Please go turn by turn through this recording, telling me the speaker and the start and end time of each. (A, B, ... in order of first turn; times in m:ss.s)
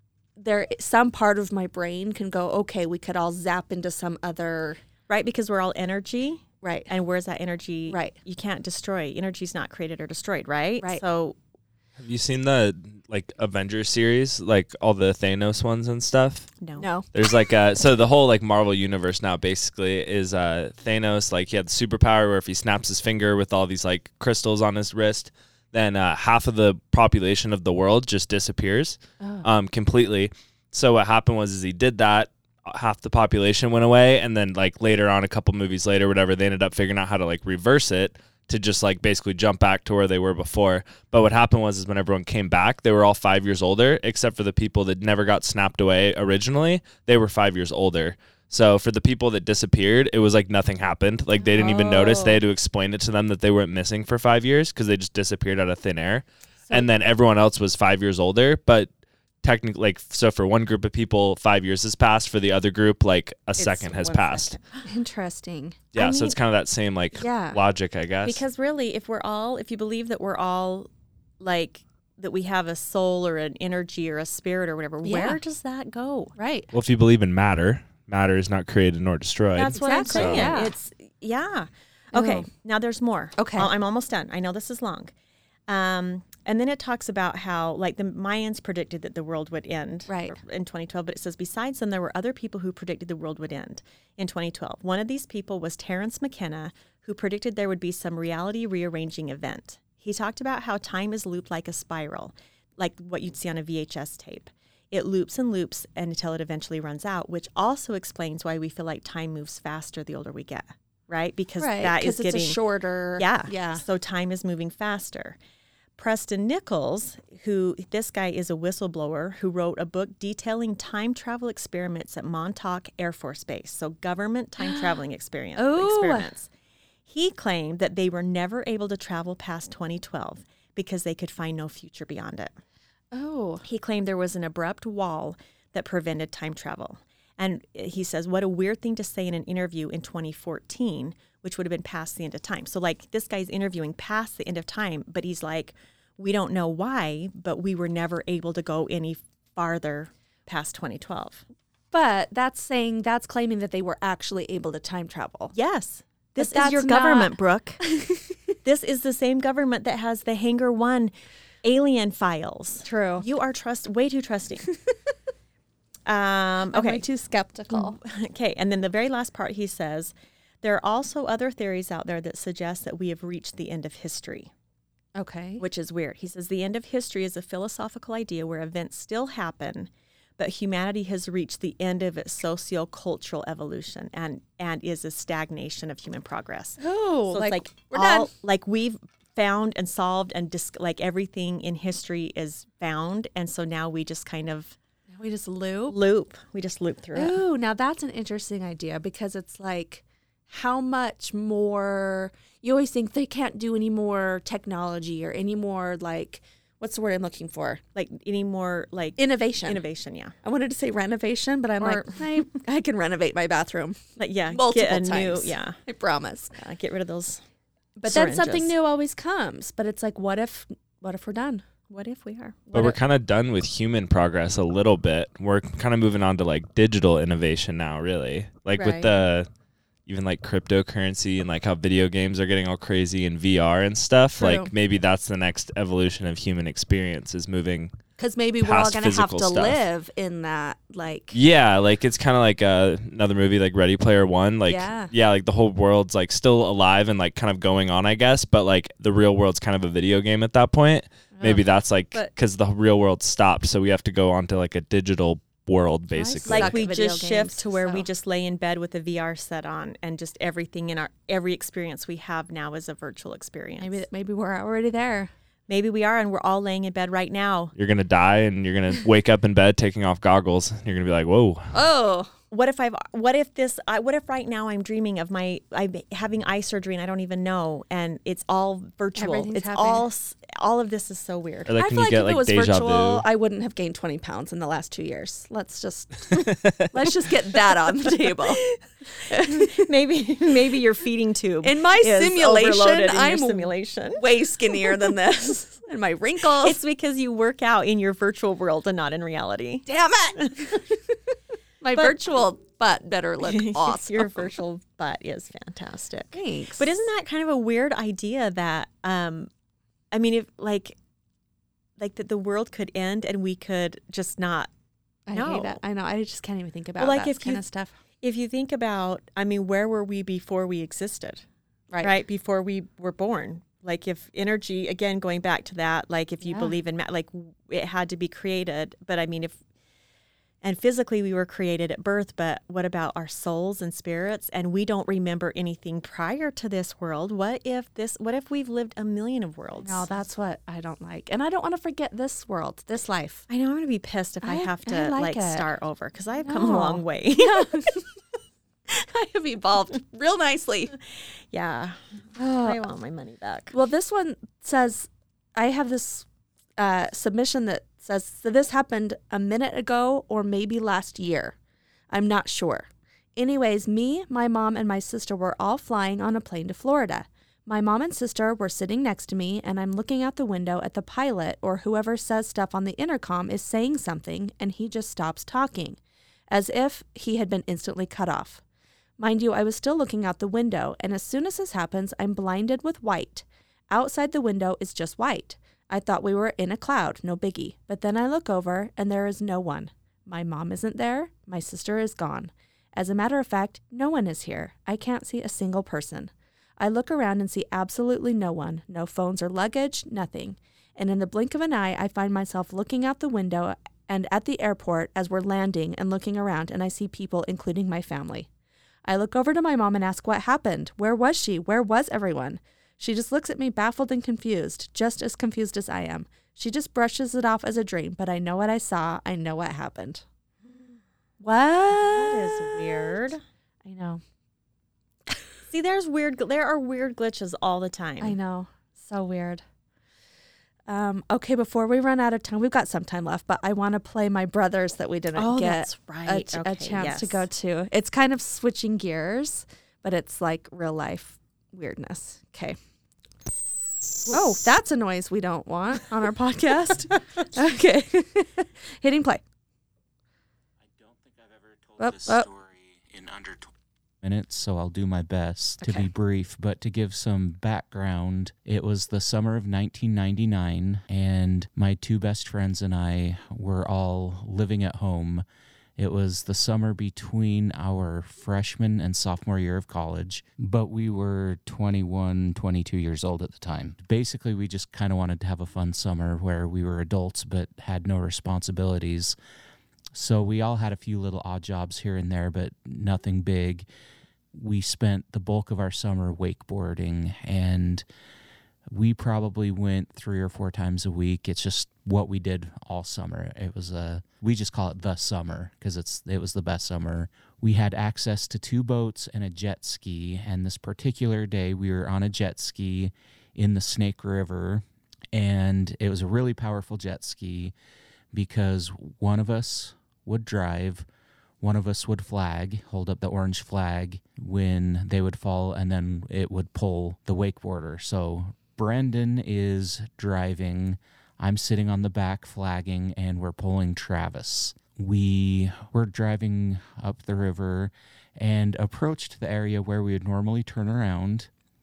0:00.4-0:04.8 A
0:05.1-0:11.4 B
0:06.6-0:06.9 A
0:07.9-0:08.2 A
0:12.0-0:16.5 C
0:16.6-0:16.8 B
0:16.8-0:17.1 A
0:17.1-0:58.9 C
0:29.2-0:29.5 A
0:51.4-0:52.4 A
0:59.4-1:04.5 C
1:03.6-1:04.8 B
1:04.8-1:05.8 A
1:05.9-1:08.4 C
1:05.9-1:06.4 B
1:07.2-1:07.6 A
1:08.2-1:16.3 B
1:15.0-1:15.4 A
1:16.4-1:16.7 A
1:16.7-1:20.5 C
1:19.5-1:25.1 B
1:19.7-1:20.7 A
1:22.1-1:22.4 A
1:23.4-1:23.7 A
1:25.7-1:52.6 B
1:30.1-1:30.4 A
1:51.6-1:53.8 A
1:53.2-1:55.4 B
1:56.0-2:06.5 B
2:04.6-2:05.0 A
2:05.6-2:06.3 A
2:07.0-2:12.5 B
2:13.1-2:13.6 A
2:13.6-2:31.4 B
2:31.9-2:35.5 A
2:35.5-2:37.8 B
2:36.4-2:38.3 A
2:38.6-2:41.1 B
2:41.6-2:44.6 B
2:42.8-2:43.2 A
2:46.0-2:47.0 B
2:46.7-2:48.0 A
2:47.7-2:54.5 B
2:55.2-2:55.6 A
2:55.6-3:14.8 B
3:06.8-3:08.3 A
3:15.1-3:16.0 A
3:15.9-3:17.4 B
3:17.1-3:27.8 A
3:27.9-3:30.3 B
3:29.2-3:29.8 A
3:30.4-3:36.5 A
3:31.8-3:32.4 B
3:34.2-3:35.8 B
3:36.6-3:37.4 B
3:38.0-3:41.6 A
3:38.0-3:38.7 B
3:41.9-3:42.6 B
3:42.7-3:43.0 A
3:42.7-3:49.5 C
3:48.7-3:49.1 B
3:50.0-3:57.9 C
3:54.4-3:54.7 A
3:58.2-4:01.4 A
3:58.6-3:59.8 C
4:01.3-4:16.7 C
4:04.7-4:05.1 A
4:11.3-4:12.3 A
4:16.2-4:18.0 A
4:16.5-4:24.0 B
4:23.8-4:25.3 A
4:25.7-4:27.7 B
4:27.8-4:31.7 C
4:31.7-4:32.3 A
4:32.5-4:41.7 B
4:39.2-4:40.0 A
4:41.7-4:43.2 C
4:41.8-4:48.6 A
4:48.2-4:48.5 B
4:49.2-4:49.8 A
4:49.3-4:54.2 B
4:51.6-4:56.8 A
4:54.8-4:55.1 B
4:56.6-4:59.9 B
4:59.8-5:00.9 A
5:00.4-5:00.8 B
5:01.8-5:04.5 A
5:03.4-5:09.5 B
5:06.3-5:06.9 A
5:10.1-5:11.0 B
5:12.0-5:14.7 B
5:15.3-5:17.9 A
5:15.3-5:15.8 B
5:17.0-5:17.6 B
5:18.2-5:21.4 B
5:21.9-5:22.2 A
5:22.0-5:29.6 B
5:26.4-5:26.7 A
5:30.6-5:40.1 B
5:39.8-5:43.4 A
5:43.5-5:47.9 B
5:44.4-5:45.6 A
5:46.4-5:48.0 A
5:48.9-5:51.0 A
5:51.5-5:52.0 B
5:52.4-5:52.8 A
5:52.6-5:53.7 B
5:53.7-6:01.5 A
6:02.1-6:16.0 A
6:16.5-6:18.6 A
6:19.2-6:48.5 A
6:49.0-7:00.2 A
7:01.4-7:03.1 A
7:01.9-7:03.4 B
7:03.8-7:04.2 A
7:05.7-7:08.4 B
7:08.2-7:09.6 A
7:10.9-7:22.8 A
7:15.3-7:17.5 B
7:24.3-7:29.4 A
7:31.0-7:33.7 D
7:32.0-7:32.5 A
7:34.2-7:45.4 D
7:35.8-7:36.1 A
7:46.0-7:59.4 D
8:00.1-8:03.8 D
8:04.5-8:08.0 D
8:08.9-8:27.7 D
8:28.3-8:31.0 D
8:31.6-8:51.5 D